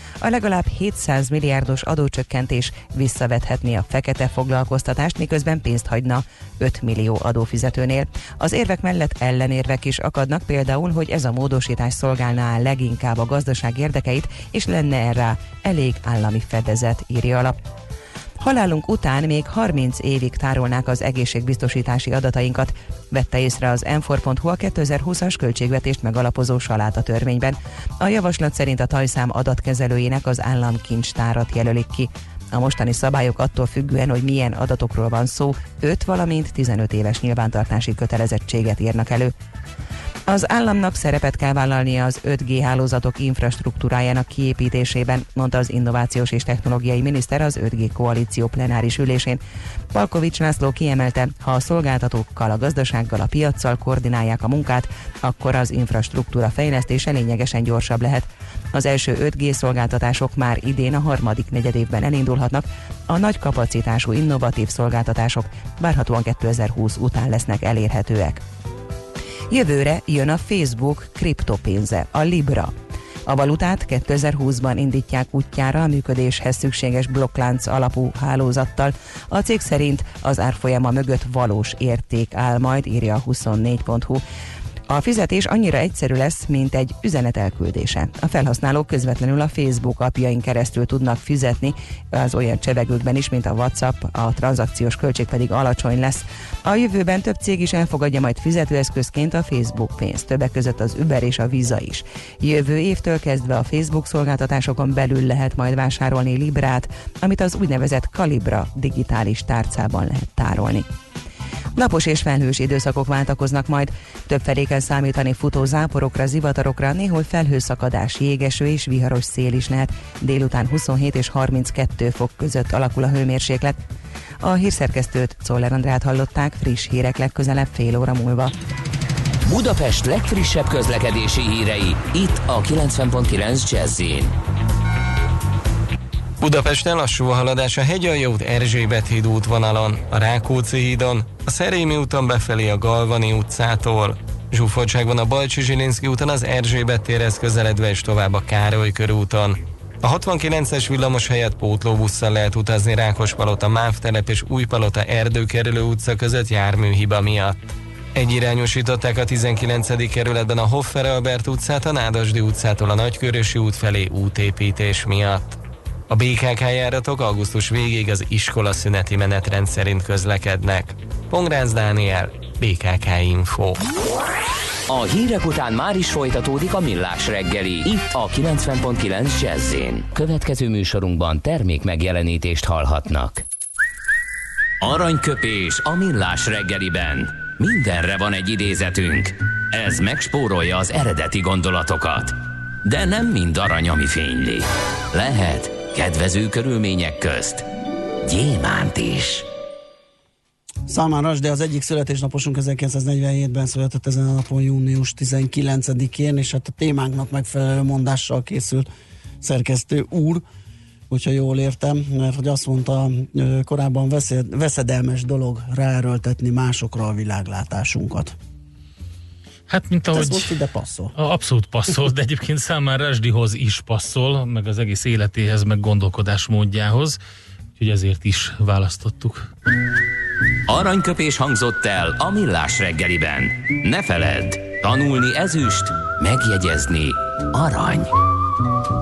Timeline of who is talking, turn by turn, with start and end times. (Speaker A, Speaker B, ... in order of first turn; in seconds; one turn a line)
Speaker A: 0.2-17.6
Speaker A: 18.4-39.3
Speaker A: 40.3-49.4
Speaker A: 49.9-68.4
Speaker A: 69.5-72.7
Speaker A: 73.3-84.2
Speaker A: 84.9-110.9
Speaker A: 111.8-123.8
Speaker A: 124.4-128.5
Speaker B: 129.5-134.3
Speaker C: 136.4-157.6
Speaker C: 158.2-173.8
Speaker B: 174.9-183.4
Speaker B: 184.8-197.7
Speaker B: 198.2-199.5
Speaker D: 200.9-208.9
Speaker D: 209.4-210.4
Speaker D: 211.1-218.3
Speaker E: 219.7-220.5
Speaker D: 220.1-221.1
Speaker E: 221.2-227.2
Speaker E: 227.8-229.5
Speaker B: 230.7-238.1